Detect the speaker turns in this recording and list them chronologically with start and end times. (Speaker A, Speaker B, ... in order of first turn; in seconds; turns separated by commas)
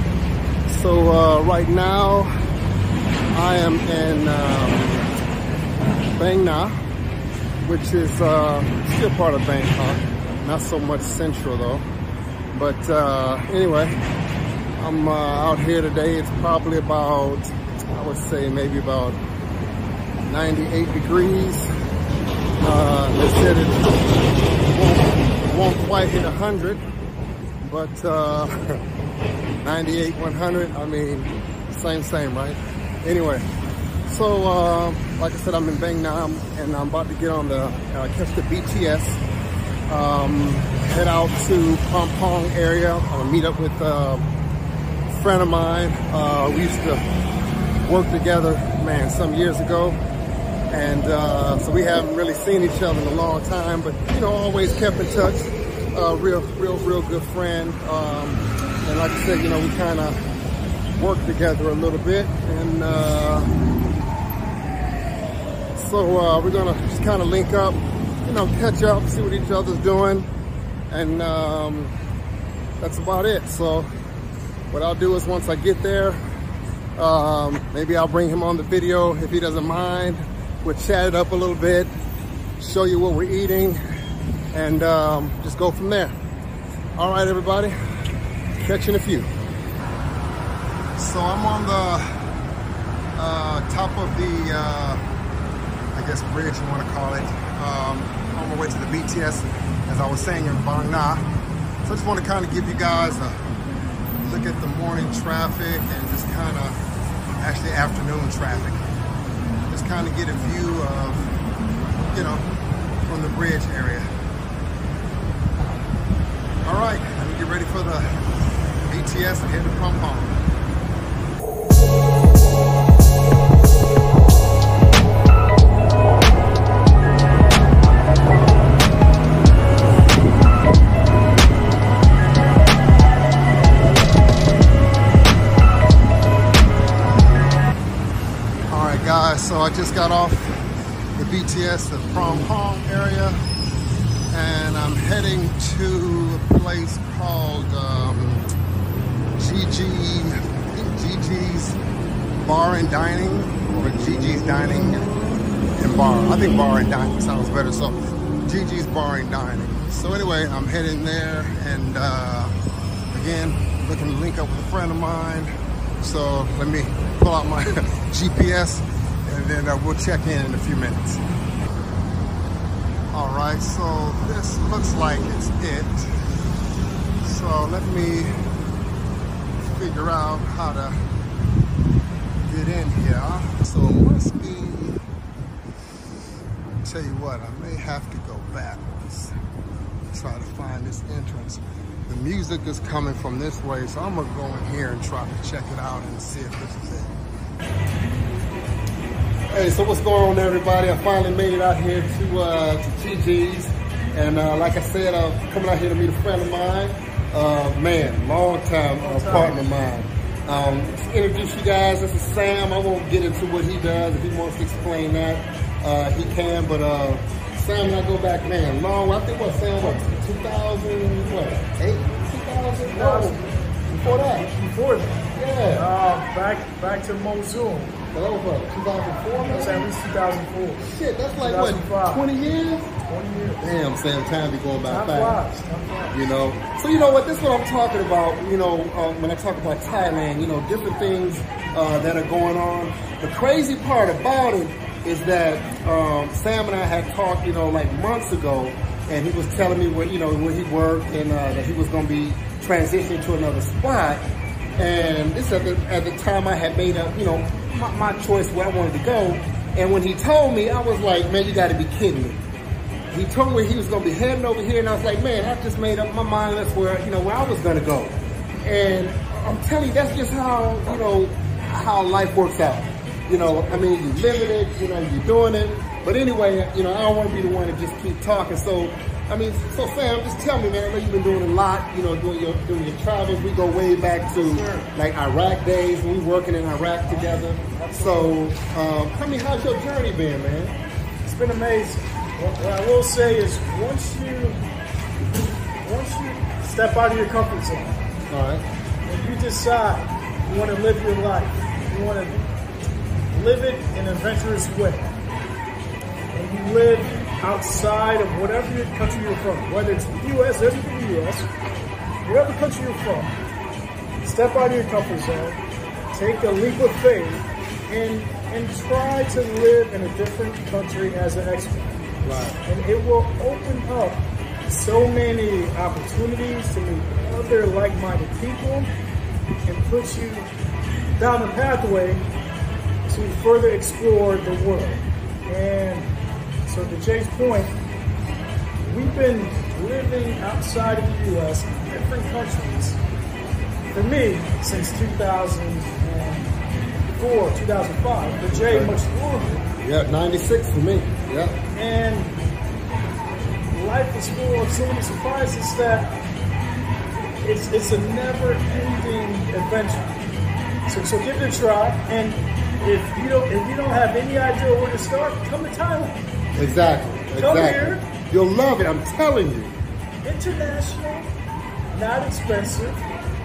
Speaker A: 0.7-2.3, Speaker A: 3.3-5.1, Speaker A: 6.2-6.7, Speaker A: 7.7-11.8, Speaker A: 12.5-14.0, Speaker A: 14.8-19.2, Speaker A: 20.2-21.7, Speaker A: 22.6-24.0, Speaker A: 24.6-26.8, Speaker A: 27.6-28.5, Speaker A: 29.6-33.5, Speaker A: 34.1-39.2, Speaker A: 39.9-44.3, Speaker A: 45.1-47.0, Speaker A: 47.8-50.0, Speaker A: 50.7-60.2, Speaker A: 61.0-63.5, Speaker A: 65.8-70.3, Speaker A: 70.9-72.0, Speaker A: 72.8-73.9, Speaker A: 74.7-76.2, Speaker A: 77.0-81.9, Speaker A: 82.6-83.8, Speaker A: 84.5-86.1, Speaker A: 87.0-87.8, Speaker A: 88.6-89.3, Speaker A: 91.0-92.1, Speaker A: 93.2-95.0, Speaker A: 95.9-101.3, Speaker A: 101.8-103.4, Speaker A: 104.2-106.8, Speaker A: 107.3-108.8, Speaker A: 109.7-111.3, Speaker A: 112.1-112.5, Speaker A: 113.1-114.1, Speaker A: 116.6-118.1, Speaker A: 118.8-120.4, Speaker A: 138.7-143.4, Speaker A: 144.3-148.5, Speaker A: 149.4-151.8, Speaker A: 152.4-155.1, Speaker A: 155.8-162.5, Speaker A: 163.1-171.2, Speaker A: 173.1-176.1, Speaker A: 177.2-178.3, Speaker A: 179.6-181.0, Speaker A: 182.5-185.0, Speaker A: 186.8-189.3, Speaker A: 190.1-197.2, Speaker A: 199.5-224.5, Speaker B: 209.0-209.6, Speaker B: 222.9-228.0, Speaker A: 225.3-225.9, Speaker A: 228.1-229.9, Speaker B: 229.4-232.3, Speaker A: 230.8-232.9, Speaker B: 233.1-233.7, Speaker A: 233.6-235.4, Speaker B: 234.9-236.3, Speaker A: 236.1-262.4, Speaker A: 263.1-290.8, Speaker B: 284.4-284.9, Speaker B: 287.1-288.4, Speaker B: 291.2-294.6, Speaker B: 295.8-298.1, Speaker A: 298.3-298.6, Speaker B: 299.1-302.5, Speaker B: 303.3-305.1, Speaker B: 306.3-311.5, Speaker B: 312.2-313.4, Speaker B: 314.2-322.1, Speaker A: 322.2-322.6, Speaker B: 322.6-328.9, Speaker B: 329.7-330.5, Speaker B: 331.2-332.3, Speaker B: 333.1-336.1, Speaker B: 336.7-337.8, Speaker B: 338.8-343.0, Speaker B: 343.9-346.5, Speaker B: 347.1-349.6, Speaker A: 348.5-348.9, Speaker A: 349.8-351.6, Speaker B: 351.7-352.4, Speaker B: 353.7-356.2, Speaker B: 357.4-360.1, Speaker B: 360.9-366.2, Speaker A: 366.6-369.8, Speaker B: 367.3-368.0, Speaker B: 370.2-371.3, Speaker B: 371.9-373.0